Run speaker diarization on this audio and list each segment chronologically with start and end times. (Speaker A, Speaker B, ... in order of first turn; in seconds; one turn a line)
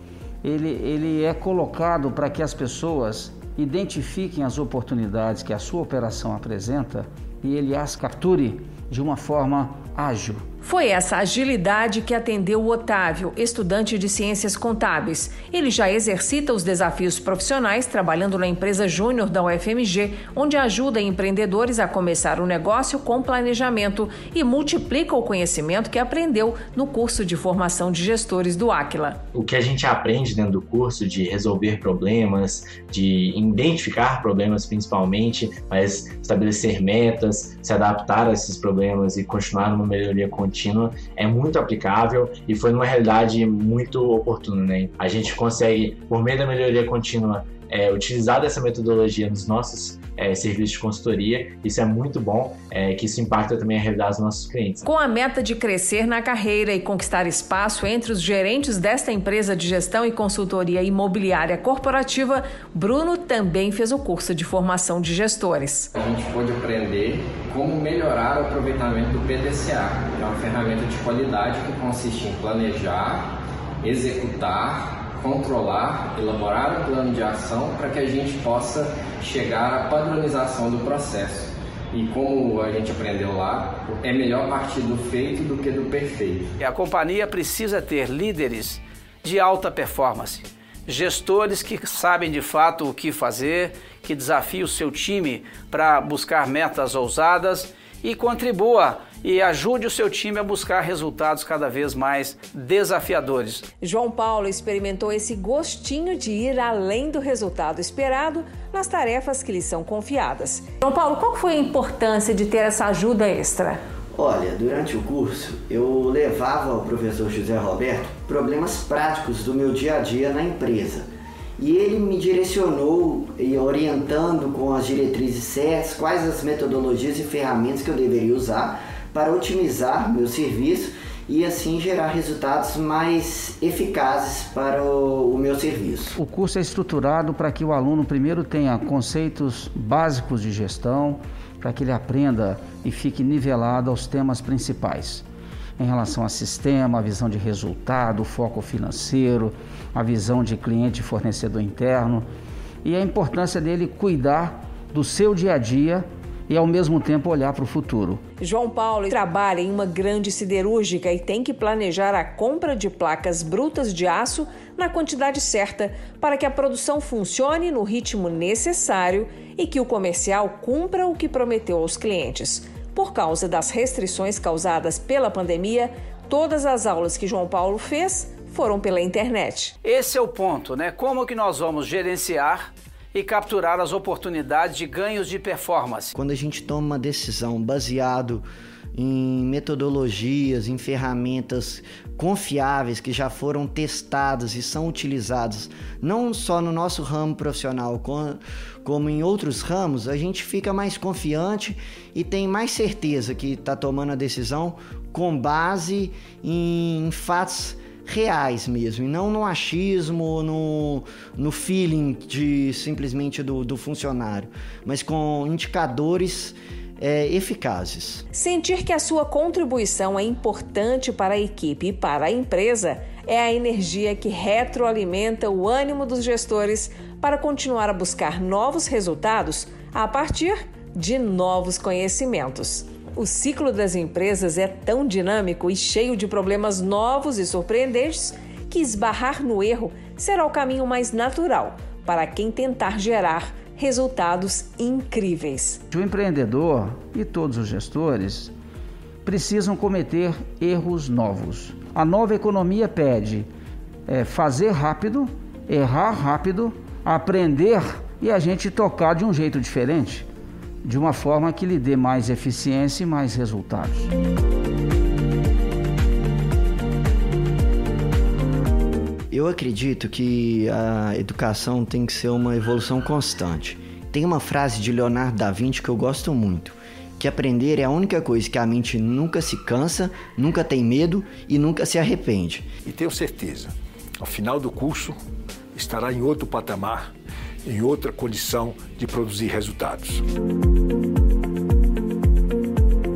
Speaker A: 0.4-10.4
Speaker B: 10.6-29.2
Speaker C: 29.3-54.8
Speaker B: 54.8-65.9
Speaker D: 65.9-86.5
Speaker E: 86.6-103.7
Speaker B: 103.8-113.8
Speaker F: 114.1-121.1
Speaker F: 121.6-136.1
Speaker A: 136.1-145.2
Speaker A: 145.8-152.3
Speaker A: 152.8-158.2
Speaker B: 158.4-179.7
Speaker E: 179.8-186.1
Speaker F: 186.1-218.2
Speaker B: 218.3-245.8
Speaker A: 245.9-248.5
Speaker A: 249.2-253.5
Speaker A: 254.1-260.3
Speaker A: 260.8-264.1
Speaker F: 269.3-282.7
Speaker G: 282.8-285.2
Speaker G: 285.7-287.1
Speaker G: 287.6-290.2